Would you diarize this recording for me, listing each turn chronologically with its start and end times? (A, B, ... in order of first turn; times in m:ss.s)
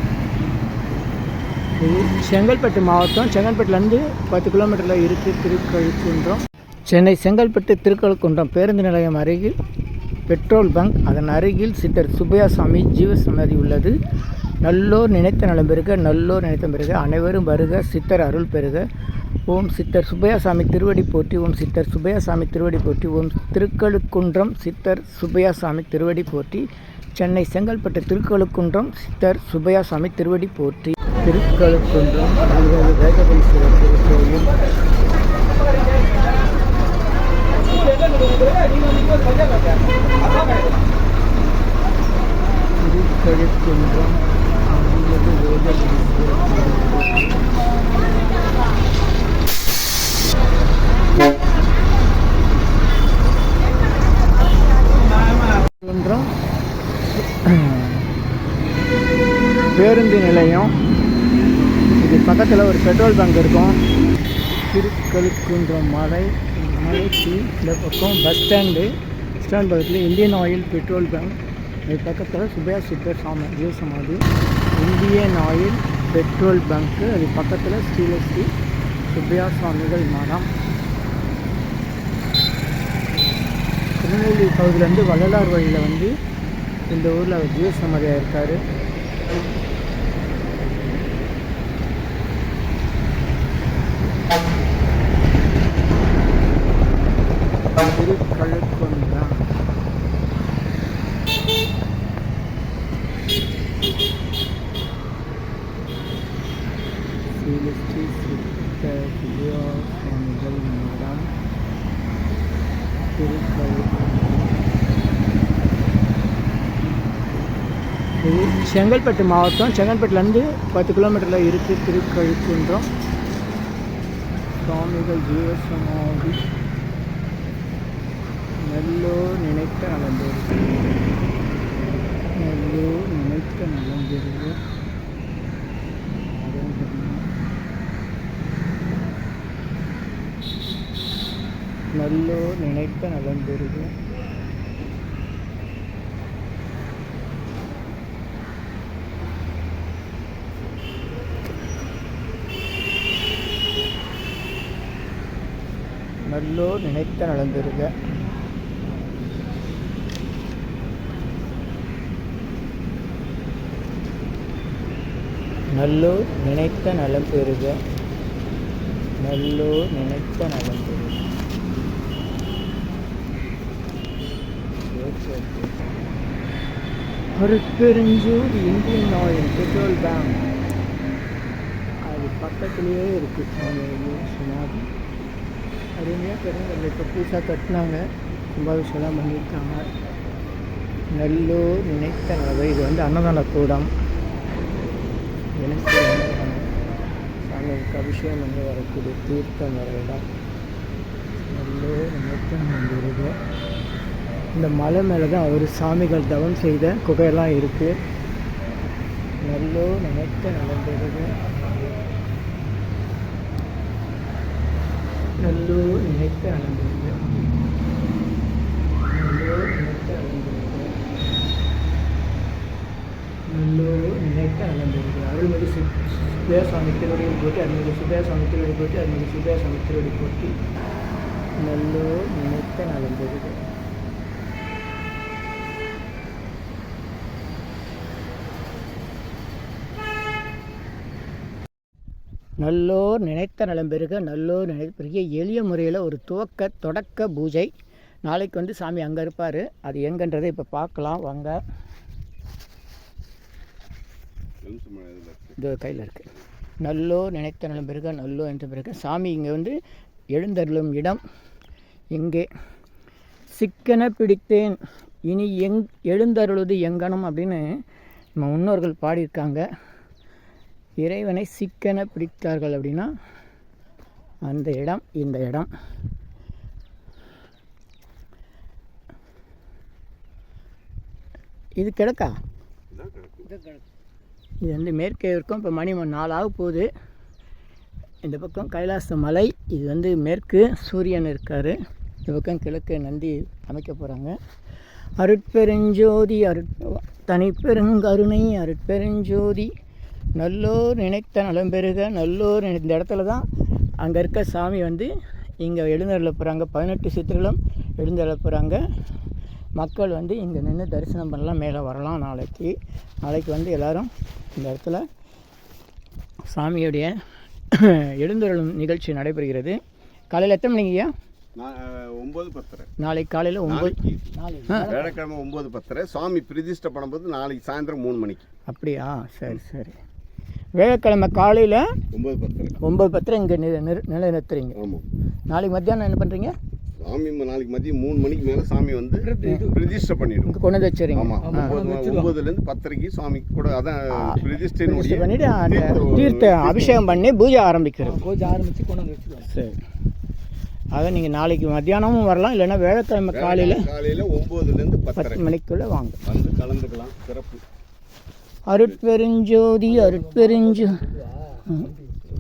0:01.8-0:09.6 A
0:10.3-0:14.0 A
0:14.6-0:18.8 A
0:19.5-0:34.6 A
0:40.2-0:40.4 A
0:42.8-0:47.4 A
0:55.8-0:56.3 A
0:57.4-0:58.1 A
0:59.7-1:00.7 A
1:02.0-1:03.8 A
1:04.7-1:08.9 A
1:09.4-1:18.5 A
1:19.1-1:20.5 A
1:24.0-1:26.1 A
1:26.9-1:28.6 A
1:37.8-1:39.4 A
1:47.3-1:51.3 A
1:53.2-1:54.6 A
1:58.2-2:02.9 A
2:04.6-2:06.4 A
2:08.6-2:10.8 A
2:12.2-2:14.6 A
2:16.2-2:17.3 A
2:21.9-2:23.9 A
2:36.3-2:38.0 A
2:45.7-2:47.8 A
2:49.2-2:51.3 A
2:54.9-2:55.7 A
2:57.4-3:00.4 A
3:02.1-3:04.9 A
3:06.0-3:08.0 A
3:08.6-3:09.9 A
3:11.1-3:13.9 A
3:15.6-3:16.7 A
3:17.4-3:20.2 A
3:21.4-3:23.4 A
3:24.6-3:28.0 A
3:29.4-3:31.3 A
3:35.4-3:37.4 A
3:39.1-3:40.9 A
3:43.5-3:50.6 A
3:51.6-3:53.6 A
4:02.6-4:07.7 A
4:08.3-4:11.6 A
4:14.6-4:15.6 B
4:15.6-4:16.3 A
4:16.8-4:19.8 A
4:20.3-4:21.2 A
4:22.1-4:22.5 A
4:23.5-4:27.6 A
4:28.4-4:29.6 A
4:31.0-4:33.1 A
4:34.5-4:35.7 A
4:41.8-4:42.4 A
4:42.9-4:43.5 B
4:44.6-4:46.9 A
4:48.2-4:54.4 A
4:55.2-4:59.7 A
5:00.4-5:03.5 A
5:04.0-5:05.1 A
5:05.6-5:08.8 A
5:09.8-5:15.0 A
5:16.5-5:17.2 A
5:17.7-5:19.8 A
5:20.3-5:21.1 A
5:21.6-5:22.9 B
5:23.0-5:24.0 A
5:23.7-5:28.5 B
5:24.5-5:25.1 A
5:28.7-5:30.0 A
5:30.8-5:31.9 A
5:32.1-5:32.8 B
5:32.8-5:34.8 A
5:34.8-5:35.1 B
5:35.5-5:36.5 A
5:37.0-5:40.6 B
5:39.2-5:39.9 C
5:40.5-5:41.8 A
5:41.1-5:47.2 B
5:41.4-5:42.4 C
5:44.2-5:48.3 A
5:48.1-5:49.5 C
5:49.4-5:49.8 A
5:50.9-5:53.9 A
5:53.3-5:55.5 B
5:55.2-5:56.2 A
5:56.2-5:57.6 B
5:58.7-6:01.1 A